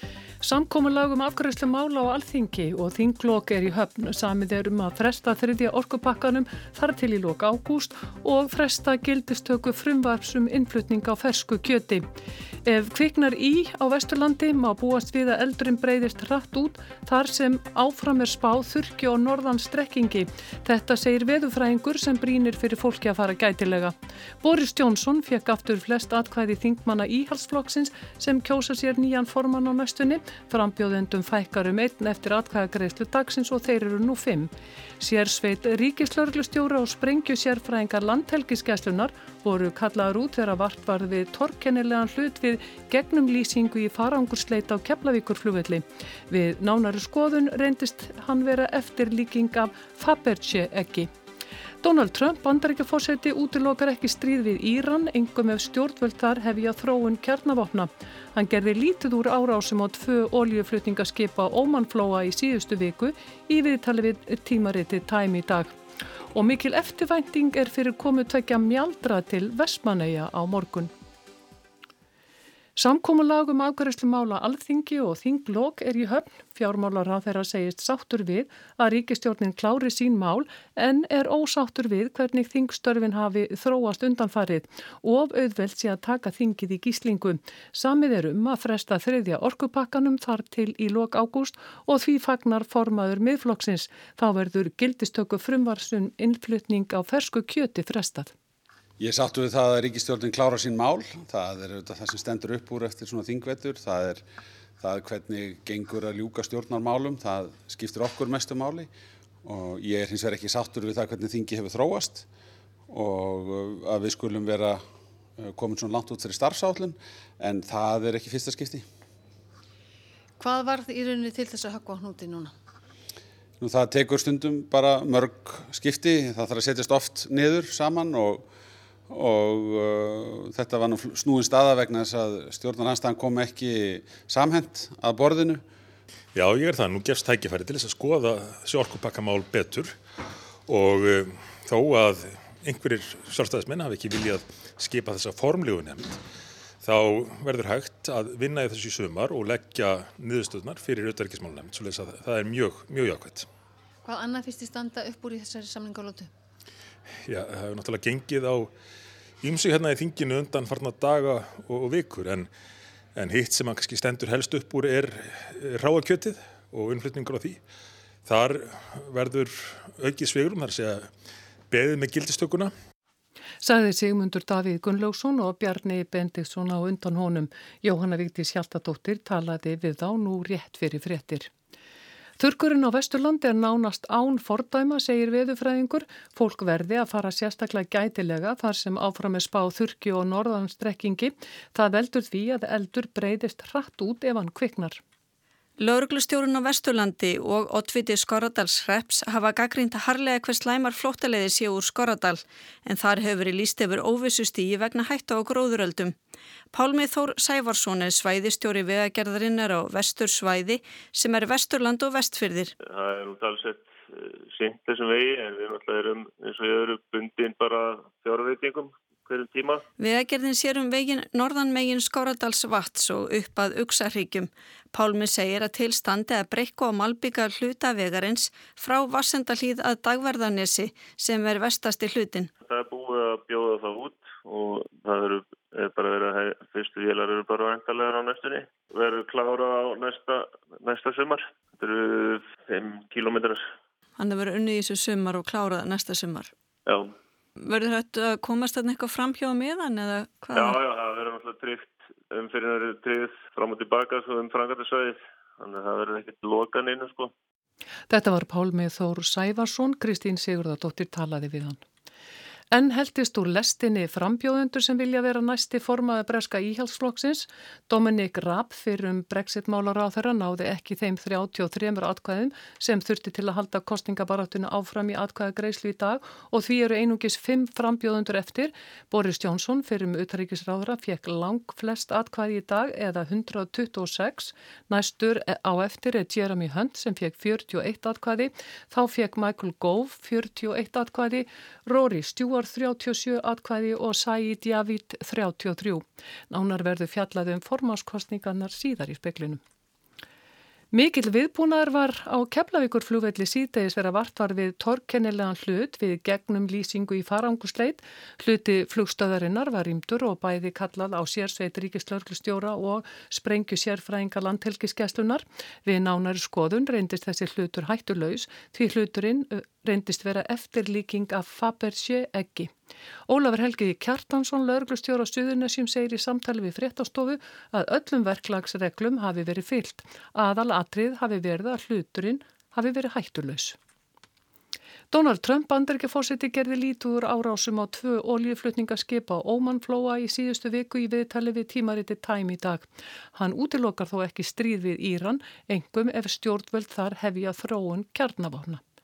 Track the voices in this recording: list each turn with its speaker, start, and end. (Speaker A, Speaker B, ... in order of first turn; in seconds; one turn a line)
Speaker A: 0.4-12.1
Speaker A: 12.6-51.1
Speaker A: 51.8-65.8
Speaker A: 66.3-70.9
Speaker A: 72.8-98.3
Speaker B: 99.0-104.2
Speaker B: 104.8-108.9
Speaker B: 109.4-112.2
Speaker B: 112.9-114.8
Speaker B: 115.4-118.8
Speaker C: 120.4-122.5
Speaker B: 123.6-128.4
Speaker B: 129.1-135.6
Speaker D: 136.3-140.0
Speaker D: 140.7-146.2
Speaker D: 146.8-153.5
Speaker C: 154.0-156.3
Speaker D: 157.2-158.7
Speaker D: 159.4-162.5
Speaker D: 163.1-167.6
Speaker D: 168.2-171.1
Speaker D: 171.7-172.7
Speaker A: 173.6-181.5
Speaker A: 182.4-195.0
Speaker E: 195.8-206.2
Speaker E: 206.7-212.7
Speaker F: 212.8-219.8
Speaker E: 220.0-232.5
Speaker F: 232.6-243.6
Speaker E: 244.2-246.5
Speaker F: 246.9-247.1
Speaker E: 247.6-250.8
Speaker F: 250.5-257.3
Speaker A: 258.1-261.8
Speaker A: 262.7-299.6
Speaker A: 300.9-322.7
Speaker A: 323.3-333.8
Speaker A: 335.1-348.8